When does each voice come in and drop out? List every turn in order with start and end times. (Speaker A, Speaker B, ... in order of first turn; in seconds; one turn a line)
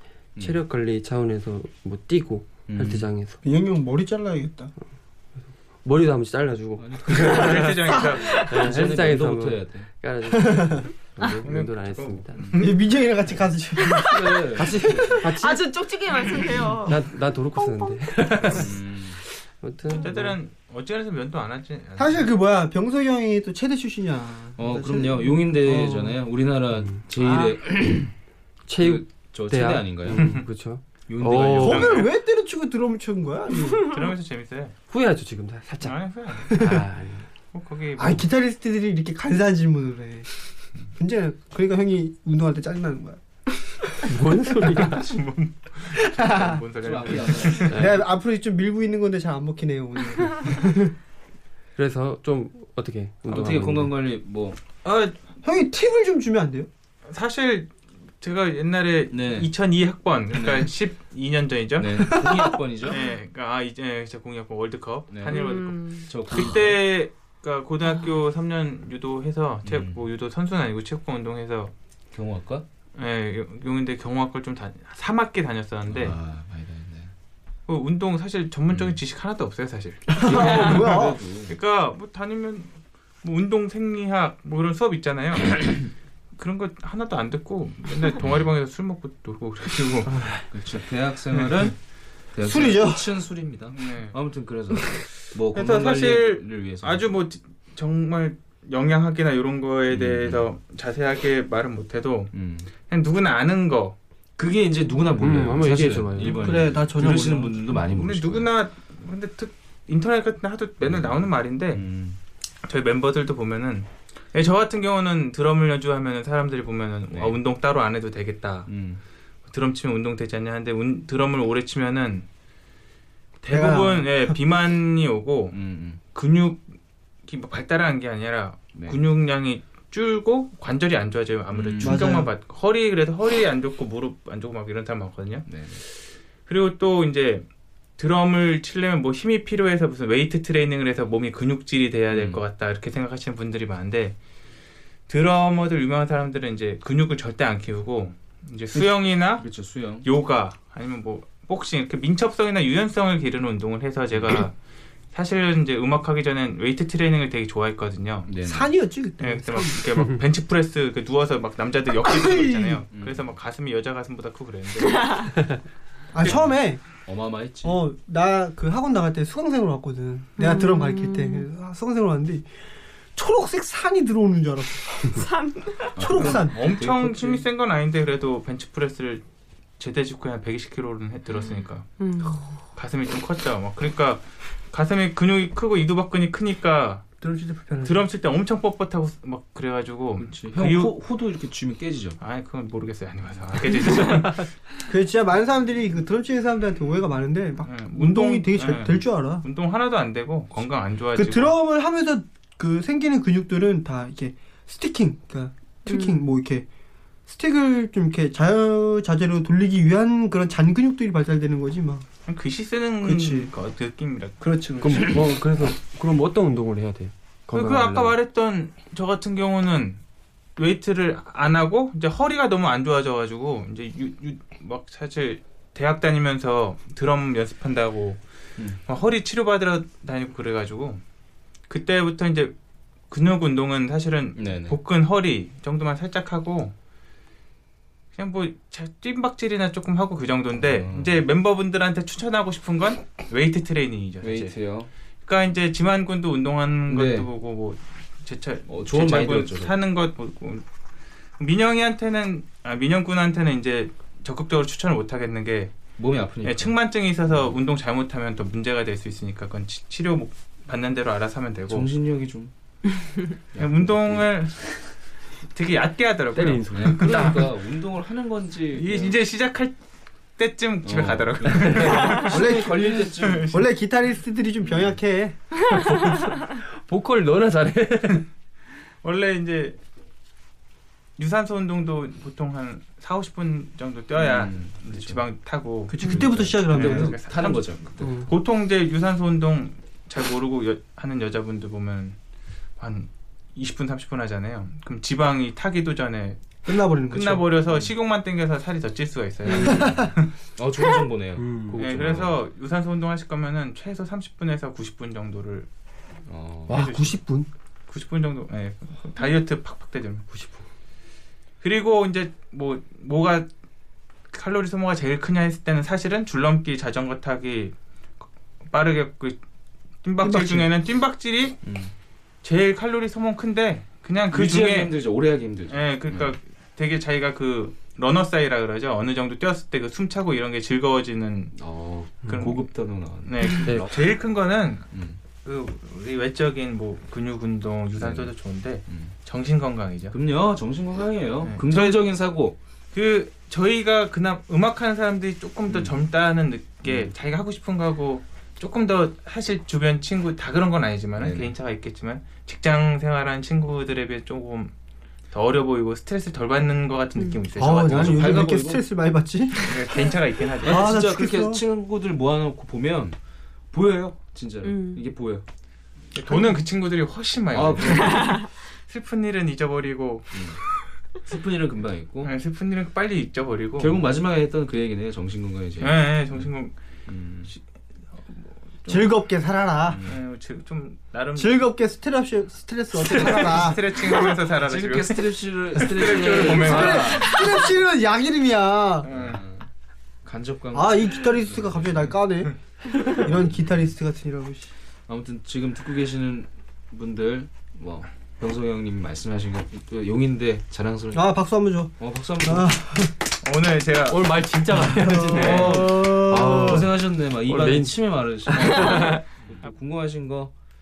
Speaker A: 0.3-0.6
Speaker B: 0.4-3.4
Speaker A: 2.7-3.1
Speaker C: 3.4-4.7
Speaker B: 5.8-7.8
Speaker A: 6.8-9.9
Speaker D: 7.1-8.4
Speaker E: 8.1-8.5
Speaker B: 8.3-12.4
Speaker C: 10.3-10.8
Speaker D: 11.4-12.8
Speaker C: 12.6-14.5
Speaker E: 13.8-14.3
Speaker A: 14.0-15.3
Speaker B: 14.6-15.7
Speaker E: 15.3-17.0
Speaker B: 16.9-18.7
Speaker E: 17.5-18.3
Speaker A: 18.5-19.2
Speaker B: 19.6-20.4
Speaker D: 19.9-22.2
Speaker C: 22.0-26.0
Speaker A: 24.6-28.1
Speaker B: 28.7-31.9
Speaker A: 28.8-30.4
Speaker D: 30.1-30.4
Speaker A: 31.1-32.0
Speaker D: 31.4-32.1
Speaker C: 31.6-33.9
Speaker D: 33.9-34.7
Speaker B: 34.9-36.0
Speaker D: 35.8-36.6
Speaker C: 36.5-36.8
Speaker B: 36.5-37.3
Speaker D: 37.5-38.2
Speaker C: 38.0-40.3
Speaker C: 41.0-43.2
Speaker B: 44.1-45.1
Speaker D: 44.7-47.8
Speaker C: 45.9-46.6
Speaker A: 46.8-47.9
Speaker B: 47.7-48.0
Speaker C: 47.7-50.9
Speaker B: 51.8-53.9
Speaker A: 53.3-54.6
Speaker C: 54.8-56.7
Speaker D: 57.1-57.7
Speaker D: 58.2-62.2
Speaker A: 59.1-59.5
Speaker A: 60.3-60.7
Speaker A: 61.8-63.0
Speaker C: 61.9-62.6
Speaker D: 62.9-71.7
Speaker A: 65.1-65.4
Speaker E: 65.3-66.1
Speaker A: 66.0-66.8
Speaker A: 69.6-70.0
Speaker A: 72.1-72.6
Speaker D: 73.0-76.2
Speaker A: 75.9-77.1
Speaker D: 77.7-85.8
Speaker A: 78.7-79.0
Speaker C: 80.1-81.2
Speaker A: 80.2-81.5
Speaker D: 86.4-90.1
Speaker B: 90.1-90.4
Speaker A: 90.5-91.8
Speaker A: 92.3-97.0
Speaker C: 92.4-93.1
Speaker D: 93.7-94.1
Speaker D: 95.5-102.3
Speaker A: 99.9-100.4
Speaker A: 102.3-102.7
Speaker D: 102.9-104.0
Speaker A: 104.4-108.5
Speaker B: 105.2-106.6
Speaker C: 106.4-107.6
Speaker D: 107.7-111.8
Speaker A: 110.8-112.2
Speaker D: 112.6-118.7
Speaker A: 117.1-117.4
Speaker A: 118.7-119.0
Speaker D: 119.5-122.2
Speaker D: 123.4-125.6
Speaker C: 123.5-124.4
Speaker A: 125.5-126.0
Speaker D: 126.1-126.6
Speaker D: 127.2-135.5
Speaker A: 131.5-132.0
Speaker C: 131.8-132.3
Speaker A: 135.5-135.8
Speaker D: 136.5-137.4
Speaker D: 138.0-144.2
Speaker A: 142.1-142.4
Speaker D: 145.1-149.4
Speaker A: 149.4-150.1
Speaker D: 150.0-154.5
Speaker A: 154.1-154.4
Speaker D: 155.1-158.3
Speaker A: 158.3-158.7
Speaker C: 158.4-159.9
Speaker D: 159.2-165.5
Speaker C: 162.1-162.8
Speaker A: 162.9-163.2
Speaker C: 166.1-167.0
Speaker A: 166.2-167.8
Speaker C: 167.6-172.5
Speaker E: 170.4-171.4
Speaker C: 173.1-175.3
Speaker E: 175.1-175.9
Speaker C: 175.9-176.6
Speaker A: 175.9-177.4
Speaker D: 176.1-179.2
Speaker D: 179.8-181.9
Speaker E: 182.0-182.6
Speaker D: 182.8-187.0
Speaker C: 187.2-188.1
Speaker D: 187.8-190.9
Speaker A: 190.2-192.2
Speaker D: 192.2-194.5
Speaker C: 194.9-199.4
Speaker D: 197.6-201.6
Speaker C: 201.1-206.7
Speaker E: 205.9-206.2
Speaker C: 207.3-212.1
Speaker D: 212.3-214.4
Speaker C: 213.0-213.5
Speaker C: 214.4-215.2
Speaker B: 214.8-218.1
Speaker D: 217.5-220.0
Speaker D: 220.6-228.2
Speaker D: 228.8-231.0
Speaker D: 231.7-232.5
Speaker D: 233.1-236.7
Speaker A: 234.4-234.8
Speaker D: 238.1-244.5
Speaker A: 240.5-241.2
Speaker A: 244.2-244.9
Speaker D: 245.2-250.6
Speaker A: 246.9-247.3
Speaker A: 248.7-249.7
Speaker D: 251.4-255.8
Speaker A: 256.0-256.7
Speaker D: 256.4-261.9
Speaker A: 257.3-257.6
Speaker A: 261.7-262.5
Speaker A: 263.5-264.3
Speaker D: 263.6-264.8
Speaker D: 265.5-267.5
Speaker B: 266.4-267.4
Speaker A: 266.7-269.2
Speaker D: 268.7-269.8
Speaker D: 270.4-273.6
Speaker A: 270.8-273.6
Speaker C: 272.3-275.4
Speaker B: 275.9-276.2
Speaker B: 276.9-278.2
Speaker D: 279.0-279.8
Speaker D: 281.2-292.1
Speaker A: 284.1-285.2
Speaker C: 285.9-287.2
Speaker A: 286.0-288.2
Speaker C: 288.0-288.3
Speaker D: 292.8-296.6
Speaker C: 296.6-297.6
Speaker D: 297.1-300.3
Speaker A: 299.5-300.0
Speaker C: 299.6-300.1
Speaker A: 300.6-302.4
Speaker B: 301.4-301.8
Speaker D: 301.8-305.7
Speaker A: 306.3-306.8
Speaker D: 306.7-307.2
Speaker B: 306.7-307.5
Speaker D: 307.9-310.2
Speaker B: 310.3-310.6
Speaker D: 311.6-313.5
Speaker D: 314.3-317.7
Speaker D: 318.7-319.4
Speaker D: 320.0-321.6
Speaker C: 320.2-320.7
Speaker A: 321.6-321.9
Speaker D: 322.4-324.9
Speaker A: 324.3-326.3
Speaker D: 325.7-331.6
Speaker A: 331.5-334.2
Speaker D: 332.3-334.9
Speaker B: 333.6-333.9
Speaker A: 334.9-335.2
Speaker D: 335.4-340.1
Speaker A: 338.0-338.3
Speaker A: 338.9-339.1
Speaker A: 340.1-342.6
Speaker D: 341.4-342.0
Speaker D: 342.9-354.7
Speaker A: 345.7-345.9
Speaker A: 346.8-347.1
Speaker A: 351.2-351.5
Speaker D: 355.3-358.5
Speaker C: 357.6-360.0
Speaker A: 357.6-358.8
Speaker D: 359.6-360.9
Speaker A: 360.6-363.2
Speaker C: 360.6-361.6
Speaker A: 363.7-365.4
Speaker E: 364.6-365.0
Speaker D: 366.1-370.6
Speaker A: 367.5-368.4
Speaker A: 370.3-370.6
Speaker A: 371.2-372.3
Speaker D: 372.2-374.0
Speaker A: 373.8-376.5
Speaker D: 375.8-376.8
Speaker A: 377.1-377.5
Speaker D: 378.3-379.1
Speaker C: 378.9-380.0
Speaker A: 379.9-380.2
Speaker D: 380.1-381.6
Speaker C: 381.4-384.1
Speaker D: 383.0-387.4
Speaker A: 384.6-387.4
Speaker C: 386.4-389.1
Speaker D: 389.0-389.4
Speaker A: 389.1-389.7
Speaker A: 390.2-392.2
Speaker C: 390.7-394.7
Speaker A: 393.5-393.8
Speaker A: 395.1-401.3
Speaker C: 401.1-403.1
Speaker A: 402.0-402.8
Speaker D: 403.4-404.3
Speaker B: 404.1-409.2
Speaker C: 404.9-406.8
Speaker D: 405.3-405.8
Speaker A: 405.4-410.5